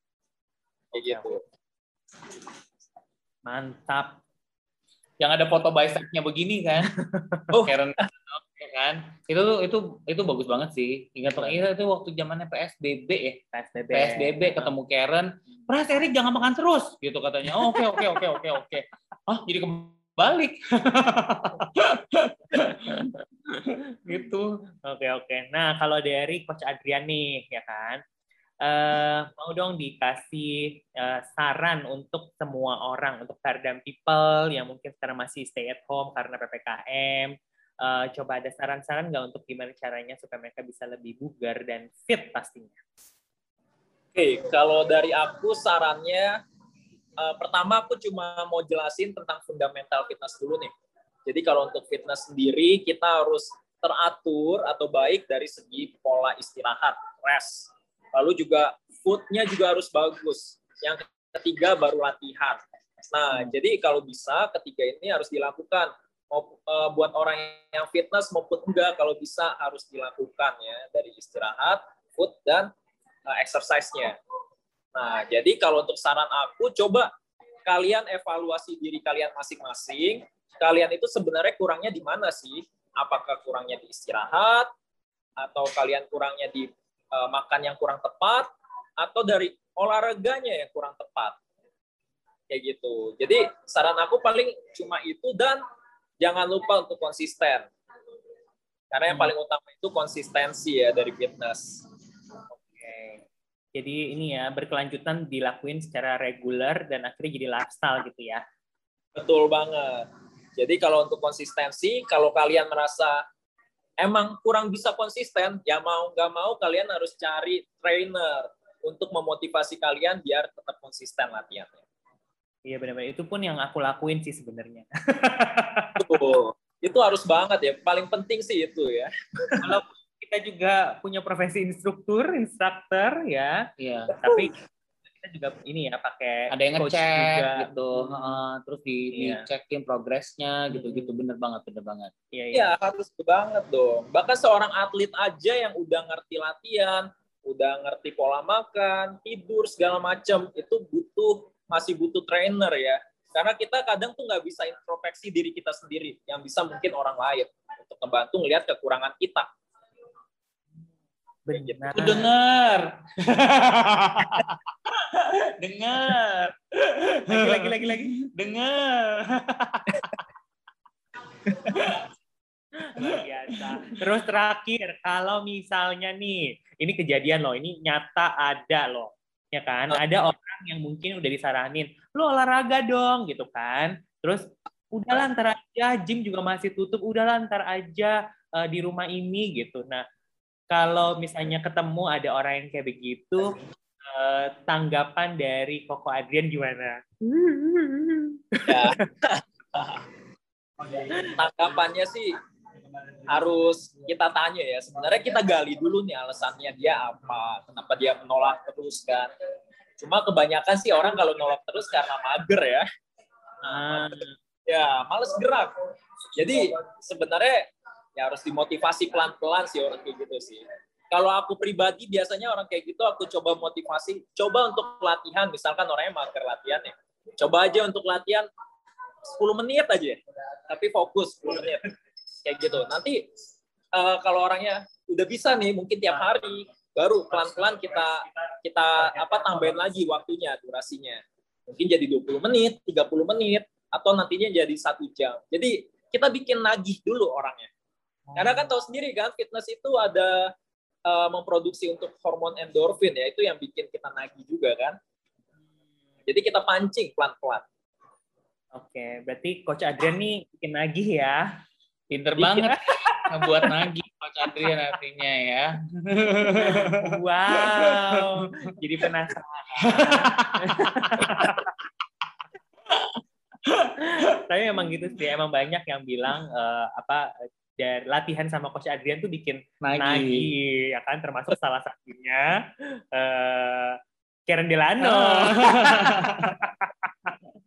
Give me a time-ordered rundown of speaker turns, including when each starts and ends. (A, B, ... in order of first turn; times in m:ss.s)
0:00.9-0:01.4 A
0:01.0-0:01.2 B
0:03.4-0:04.2 B
0:05.2-0:06.9 C
0:07.1-0:07.4 B
0:07.5-0:07.8 A
0:07.6-0:13.4 C
0:13.5-0:14.8 B
0:13.9-0:23.1 C
0:17.6-0:18.1 B
0:22.6-0:23.7 B
0:24.0-0:24.5 C
0:24.8-0:28.0 B
0:28.6-0:42.8 B
0:44.2-0:46.4 A
0:47.2-0:50.7 A
0:51.3-1:12.7 A
1:13.3-1:14.2 A
1:15.0-1:17.1 A
1:17.6-1:24.7 A
1:25.4-1:28.5 A
1:29.0-1:31.4 A
1:32.5-1:35.6 A
1:36.2-1:37.7 A
1:38.9-1:41.8 A
1:42.6-1:43.2 B
1:43.8-1:48.4 B
1:49.2-1:53.2 A
1:54.0-2:01.8 A
2:02.6-2:06.1 B
2:06.0-2:09.7 A
2:09.6-2:14.5 B
2:13.8-2:14.2 C
2:15.2-2:18.4 B
2:16.5-2:22.1 C
2:19.1-2:19.5 B
2:20.7-2:21.2 B
2:22.3-2:22.7 B
2:22.5-2:39.5 A
2:41.5-2:42.3 B
2:41.5-2:42.2 A
2:41.9-2:50.2 C
2:47.3-2:48.2 B
2:51.5-2:51.9 A
2:51.7-2:52.1 C
2:52.8-3:10.0 B
3:10.7-3:18.9 B
3:18.7-3:20.0 A
3:21.1-3:22.3 A
3:23.3-3:29.3 A
3:30.0-3:32.9 A
3:33.6-3:35.7 A
3:33.7-3:34.4 B
3:36.4-3:48.5 A
3:49.2-3:51.9 A
3:52.4-3:53.2 A
3:53.9-4:07.7 A
4:08.3-4:08.7 B
4:08.4-4:10.5 A
4:11.1-4:15.0 A
4:16.3-4:17.6 A
4:18.8-4:21.5 B
4:22.1-4:28.2 C
4:22.4-4:23.8 B
4:26.5-4:31.7 B
4:29.9-4:31.6 C
4:33.7-4:33.9 C
4:34.0-4:47.3 B
4:39.8-4:40.5 C
4:45.0-4:46.6 C